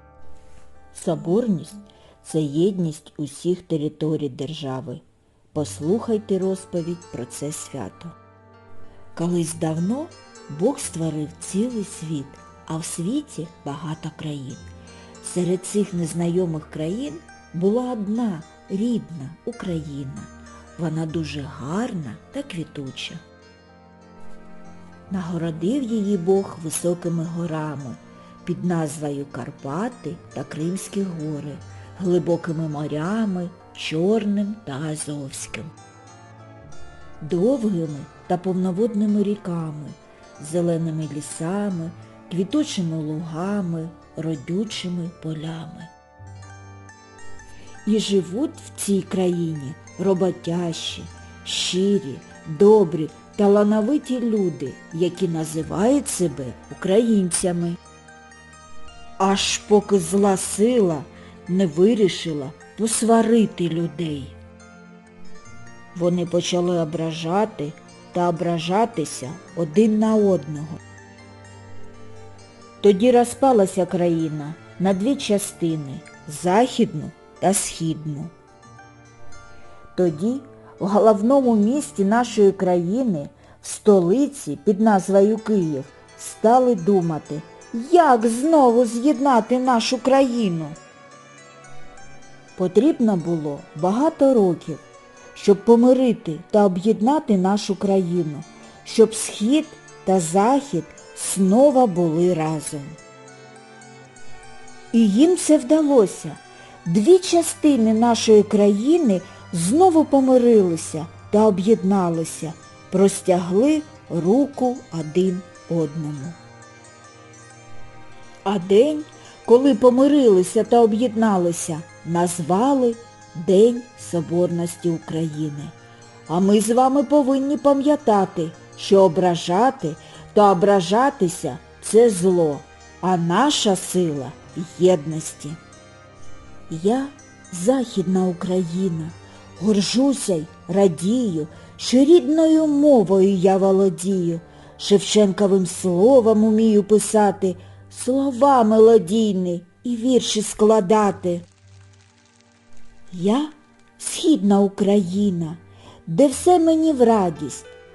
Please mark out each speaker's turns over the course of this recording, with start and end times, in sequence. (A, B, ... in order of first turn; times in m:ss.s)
0:00.9-0:08.2 A
0:09.2-0:14.7 A
0:15.2-0:23.2 A
0:25.1-0:35.7 A
0:37.2-0:45.9 A
0:47.9-0:57.8 A
0:59.2-1:04.4 A
1:05.9-1:10.8 A
1:12.8-1:18.3 A
1:19.9-1:30.8 A
1:32.6-1:34.8 A
1:35.4-1:43.0 A
1:44.9-1:56.4 A
1:58.4-2:05.8 A
2:06.3-2:15.6 A
2:16.7-2:31.5 A
2:33.1-2:37.7 A